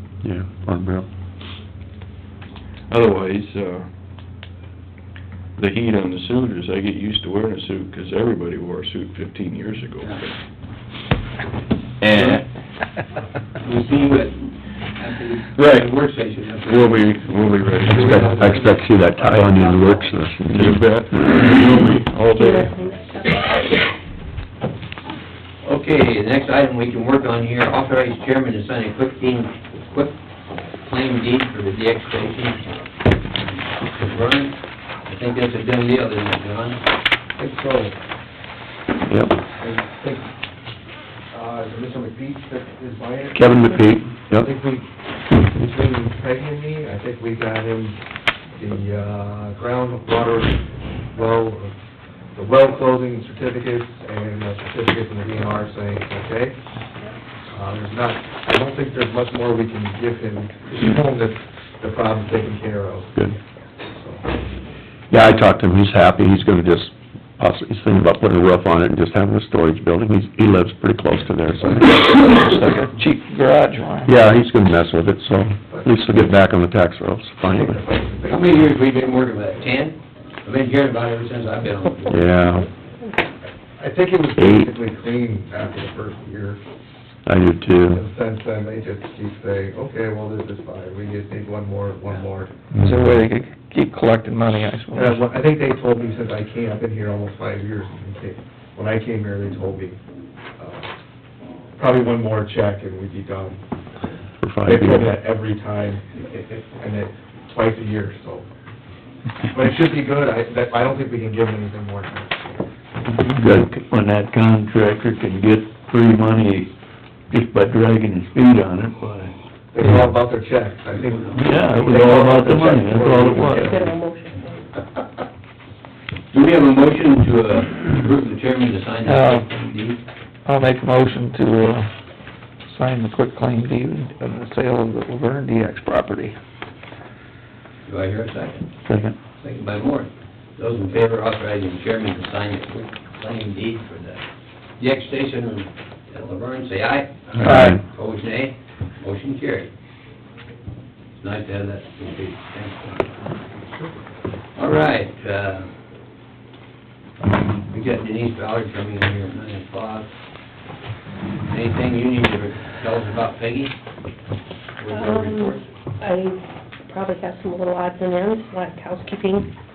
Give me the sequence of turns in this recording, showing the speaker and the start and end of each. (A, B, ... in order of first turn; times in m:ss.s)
0:00.2-0:01.1 A
0:02.9-0:03.9 B
0:05.6-0:10.4 B
0:12.0-0:12.4 C
0:13.6-0:17.2 C
0:15.6-0:16.0 B
0:16.6-0:18.4 B
0:17.8-0:20.2 C
0:17.9-0:21.0 A
0:20.5-0:22.8 B
0:22.3-0:23.5 D
0:25.6-0:30.2 C
0:30.8-0:32.8 C
0:33.5-0:36.8 C
0:37.4-0:38.0 E
0:39.1-0:39.4 A
0:39.6-0:40.3 E
0:41.3-0:43.7 E
0:43.3-0:44.5 A
0:44.4-0:44.9 E
0:45.4-0:48.0 E
0:48.6-0:50.6 E
0:51.1-0:51.7 E
0:52.3-0:56.6 E
0:57.5-1:04.4 E
1:05.1-1:12.0 A
1:12.4-1:14.1 F
1:14.0-1:17.8 A
1:15.7-1:16.0 E
1:17.4-1:18.8 E
1:18.3-1:22.2 C
1:22.1-1:22.7 A
1:23.8-1:26.6 E
1:24.4-1:24.7 A
1:27.2-1:28.0 A
1:27.9-1:32.5 E
1:32.8-1:33.2 A
1:32.8-1:35.2 F
1:35.0-1:40.0 E
1:40.6-1:40.9 E
1:41.8-1:43.6 E
1:44.4-1:45.1 A
1:44.6-1:48.5 E
1:49.5-1:52.6 E
1:53.4-1:53.7 A
1:53.6-1:56.7 G
1:57.3-1:59.3 G
1:59.7-2:03.8 E
2:01.3-2:03.8 G
2:01.8-2:02.2 F
2:02.9-2:03.7 F
2:03.3-2:04.6 D
2:06.3-2:10.0 C
2:09.0-2:09.5 F
2:10.5-2:11.9 F
2:12.7-2:16.4 F
2:17.9-2:18.7 C
2:18.9-2:19.2 F
2:19.4-2:24.2 C
2:24.8-2:29.7 C
2:27.4-2:27.8 F
2:27.4-2:27.8 A
2:31.2-2:33.2 C
2:34.6-2:35.7 C
2:37.3-2:40.1 C
2:41.5-2:43.8 C
2:44.8-2:45.6 C
2:44.9-2:49.5 D